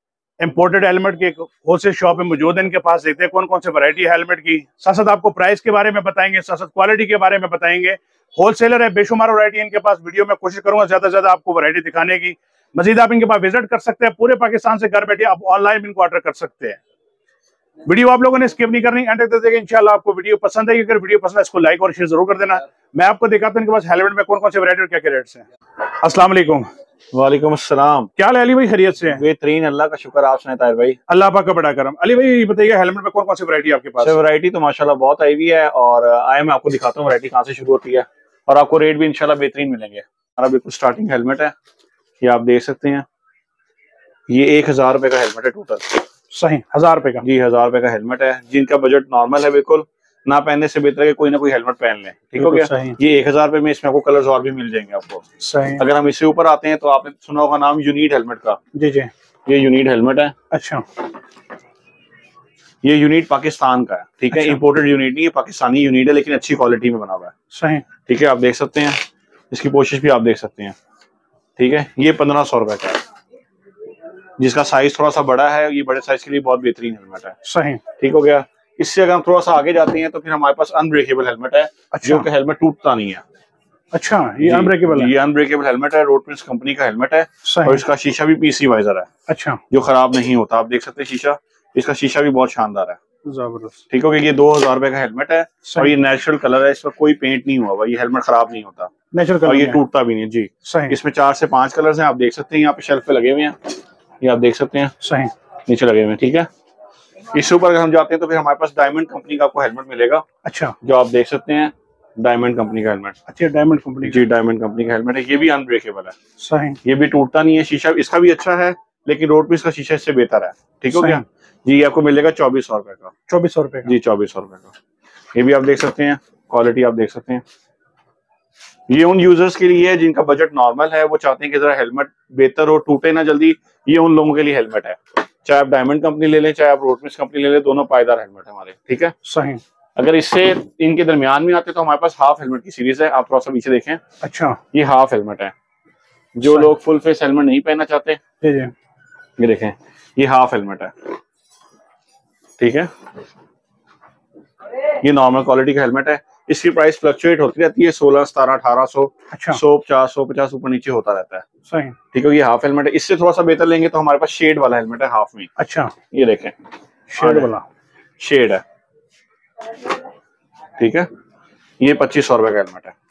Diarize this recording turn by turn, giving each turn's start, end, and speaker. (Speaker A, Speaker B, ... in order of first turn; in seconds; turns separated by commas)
Speaker A: 0.4-16.8, Speaker A: 17.9-26.7, Speaker B: 27.1-28.1, Speaker A: 28.2-29.2, Speaker B: 29.1-31.0, Speaker A: 31.1-34.2, Speaker B: 34.0-41.5, Speaker B: 42.2-43.0, Speaker B: 44.3-46.0, Speaker A: 46.3-47.2, Speaker B: 47.2-55.2, Speaker A: 52.4-53.0, Speaker A: 55.4-55.8, Speaker B: 55.8-58.6, Speaker A: 58.8-59.1, Speaker B: 59.5-60.4, Speaker A: 60.5-60.9, Speaker B: 62.8-67.3, Speaker A: 64.3-64.6, Speaker A: 67.5-67.8, Speaker B: 68.1-70.8, Speaker B: 71.6-73.0, Speaker B: 74.4-77.4, Speaker A: 77.5-77.8, Speaker B: 78.0-83.2, Speaker A: 81.9-82.3, Speaker A: 83.9-85.1, Speaker B: 84.4-89.1, Speaker A: 87.5-87.8, Speaker A: 89.3-89.6, Speaker B: 89.7-93.0, Speaker A: 93.2-93.8, Speaker B: 93.9-98.9, Speaker A: 95.7-95.9, Speaker A: 99.1-99.8, Speaker B: 99.4-105.0, Speaker A: 100.6-101.0, Speaker A: 105.0-105.3, Speaker B: 105.7-106.5, Speaker B: 107.3-110.2, Speaker A: 110.5-110.8, Speaker B: 110.8-113.2, Speaker A: 113.3-114.2, Speaker B: 114.0-116.2, Speaker A: 116.4-116.8, Speaker B: 116.8-123.1, Speaker A: 120.9-121.2, Speaker A: 123.3-123.9, Speaker B: 123.8-124.7, Speaker B: 125.3-127.4, Speaker B: 128.9-139.2, Speaker A: 139.2-139.6, Speaker B: 140.0-144.0, Speaker A: 144.2-144.6, Speaker B: 144.7-145.5, Speaker B: 146.4-148.2, Speaker A: 148.4-148.7, Speaker B: 149.4-150.9, Speaker B: 152.6-152.9, Speaker B: 155.0-161.5, Speaker A: 159.3-159.6, Speaker A: 161.7-162.0, Speaker B: 162.1-165.5, Speaker A: 165.6-165.9, Speaker B: 166.1-166.6, Speaker A: 167.1-167.7, Speaker B: 167.2-167.5, Speaker B: 168.2-168.6, Speaker B: 170.8-171.1, Speaker B: 171.8-172.9